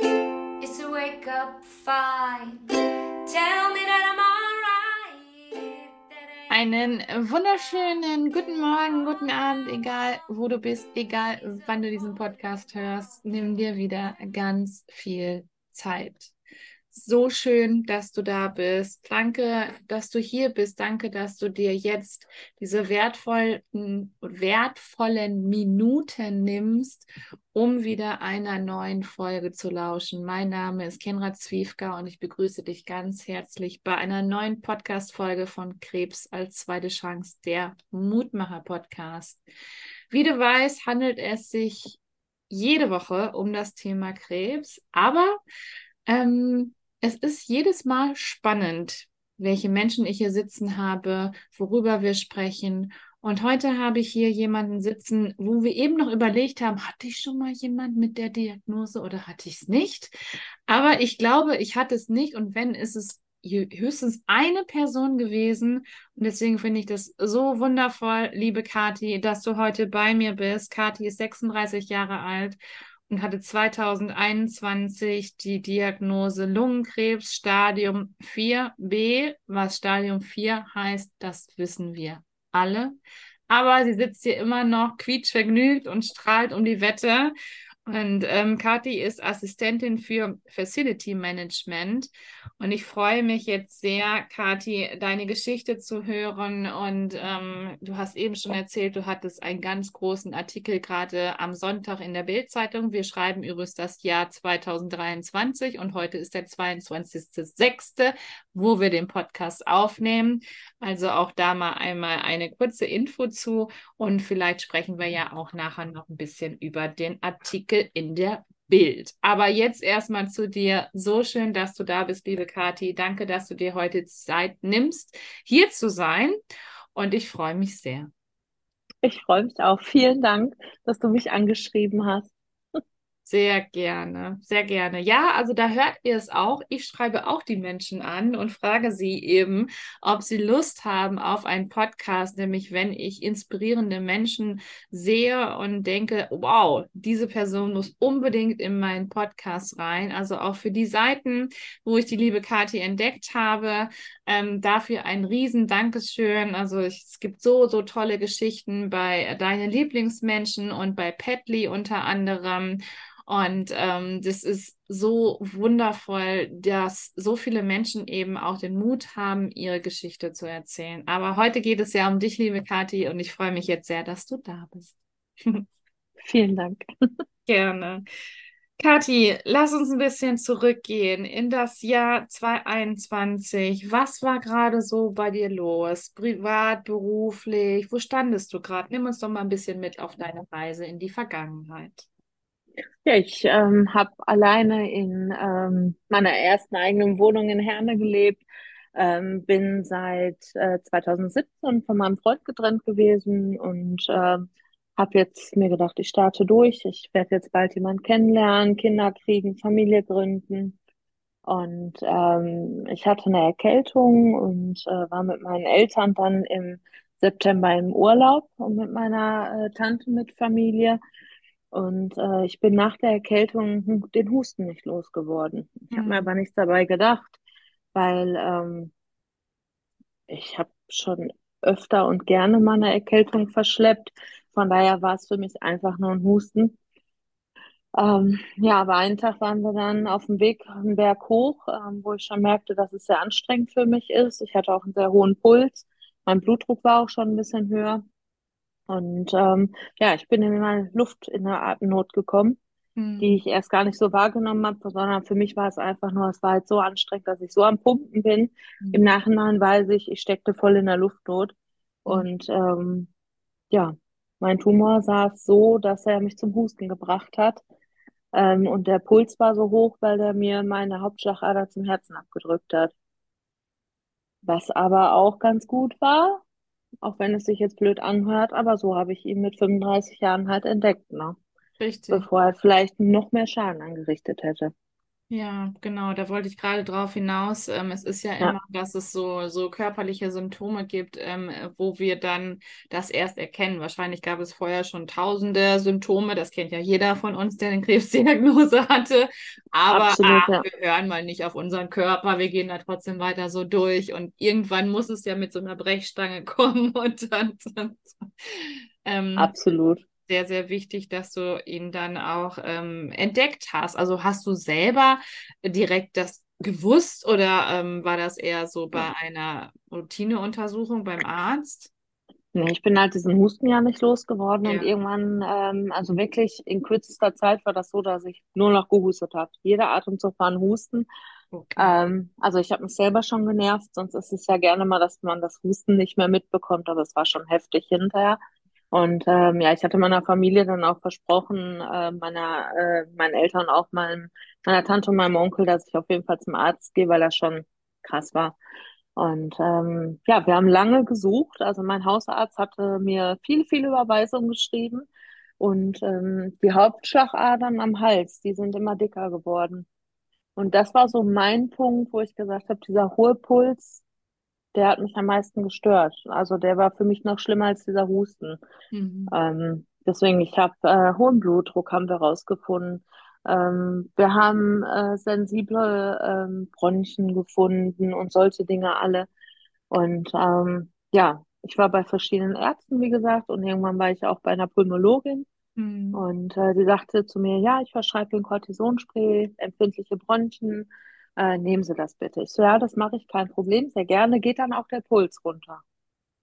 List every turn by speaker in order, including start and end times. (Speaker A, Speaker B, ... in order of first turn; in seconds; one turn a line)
Speaker A: 0.6-2.7
Speaker A: 3.2-14.3
Speaker B: 6.5-16.3
Speaker B: 16.9-39.4
Speaker B: 40.1-42.0
Speaker B: 42.5-45.4
Speaker B: 46.1-60.2
Speaker B: 60.7-82.9
Speaker B: 83.5-87.3
Speaker B: 87.9-126.4
Speaker B: 127.0-128.1
Speaker C: 129.0-132.3
Speaker B: 133.2-175.7
Speaker C: 176.2-176.8
Speaker B: 177.5-178.0
Speaker B: 178.8-192.1
Speaker C: 193.1-198.4
Speaker C: 198.9-210.8
Speaker C: 211.4-221.0
Speaker C: 221.7-227.3
Speaker B: 225.9-226.3
Speaker C: 227.9-228.9
Speaker C: 230.3-236.8
Speaker C: 238.0-248.0
Speaker C: 248.9-252.6
Speaker B: 253.0-253.3
Speaker C: 253.2-261.5
Speaker B: 258.8-259.1
Speaker C: 262.1-263.1
Speaker C: 263.7-267.6
Speaker C: 268.3-272.9
Speaker C: 274.4-276.4
Speaker C: 277.0-281.4
Speaker B: 281.8-282.3
Speaker C: 282.1-284.7
Speaker B: 285.3-309.5
Speaker C: 299.9-300.6
Speaker C: 309.4-310.0
Speaker B: 310.3-321.9
Speaker C: 322.5-331.1
Speaker B: 324.6-324.9
Speaker B: 331.5-332.0
Speaker C: 331.8-338.4
Speaker C: 338.9-348.6
Speaker C: 349.2-355.1
Speaker C: 355.6-359.9
Speaker C: 360.6-364.0
Speaker C: 364.8-368.6
Speaker B: 368.9-369.4
Speaker C: 369.3-379.3
Speaker C: 379.9-385.5
Speaker B: 385.8-386.2
Speaker C: 386.1-395.8